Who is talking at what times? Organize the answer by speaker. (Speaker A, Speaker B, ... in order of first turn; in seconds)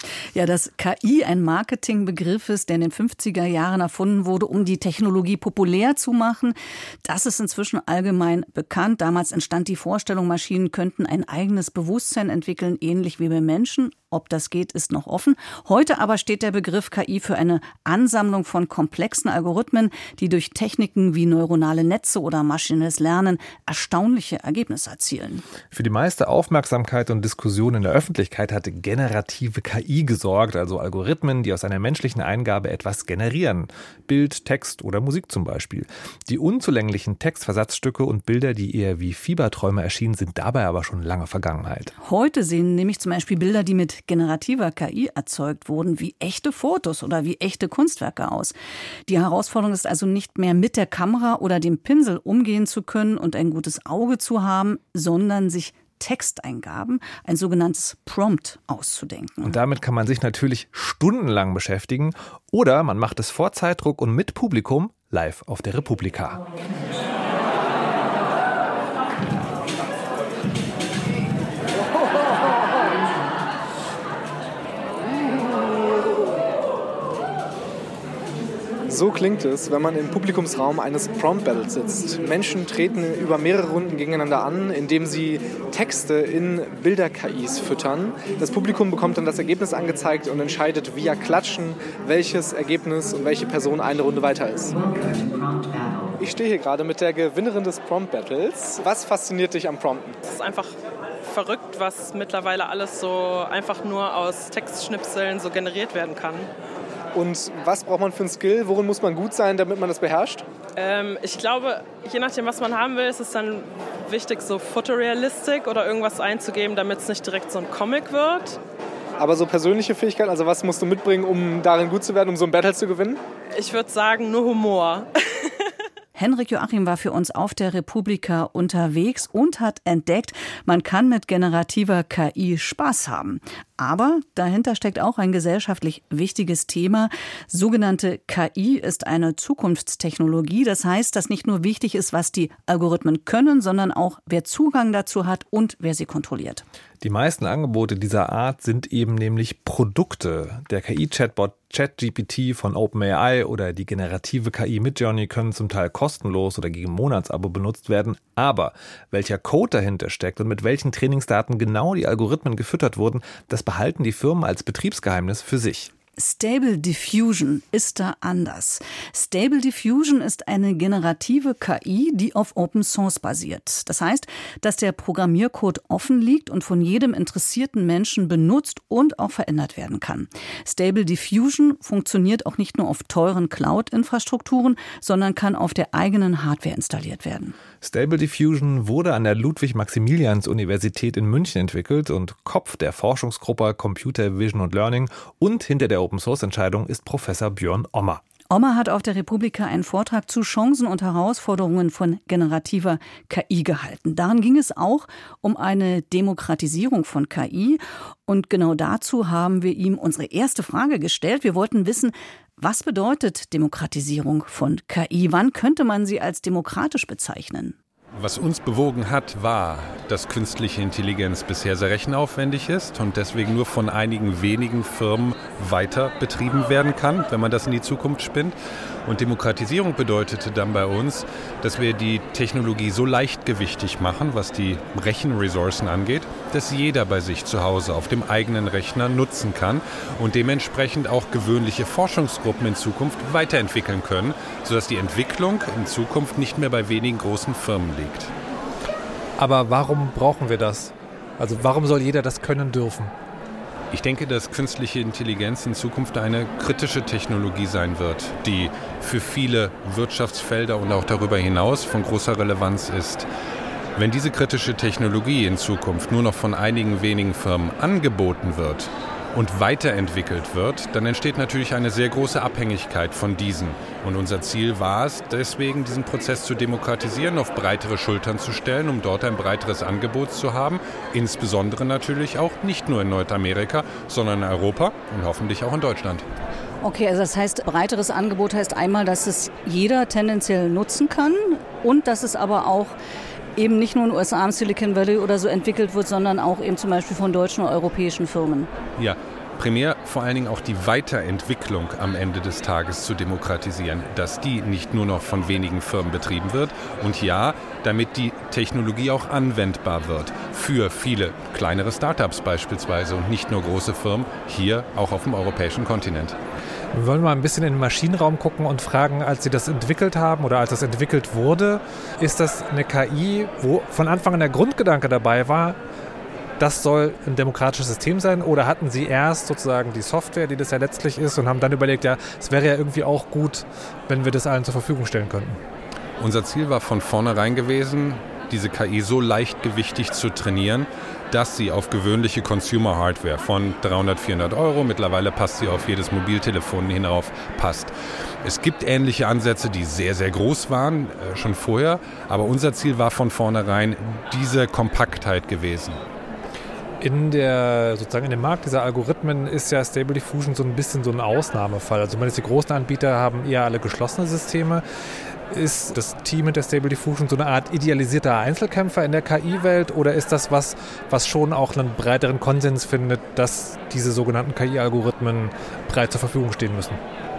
Speaker A: 0.3-25.4, 42.0-48.5, 49.1-59.6, 126.1-146.6, 166.2-187.6, 198.5-217.8, 286.8-292.9, 293.6-298.7
Speaker B: 25.7-41.9, 59.4-66.4, 147.0-165.9, 187.8-198.2, 249.4-253.1, 316.9-325.8, 326.6-335.6, 357.0-364.8, 365.5-377.0
Speaker C: 78.9-94.8, 96.2-100.2, 107.1-110.4, 119.2-123.2
Speaker D: 100.2-106.5, 110.8-118.6, 123.5-125.5
Speaker E: 218.2-248.3, 253.9-263.3, 263.9-286.2, 299.0-316.4, 336.2-347.9, 348.4-356.0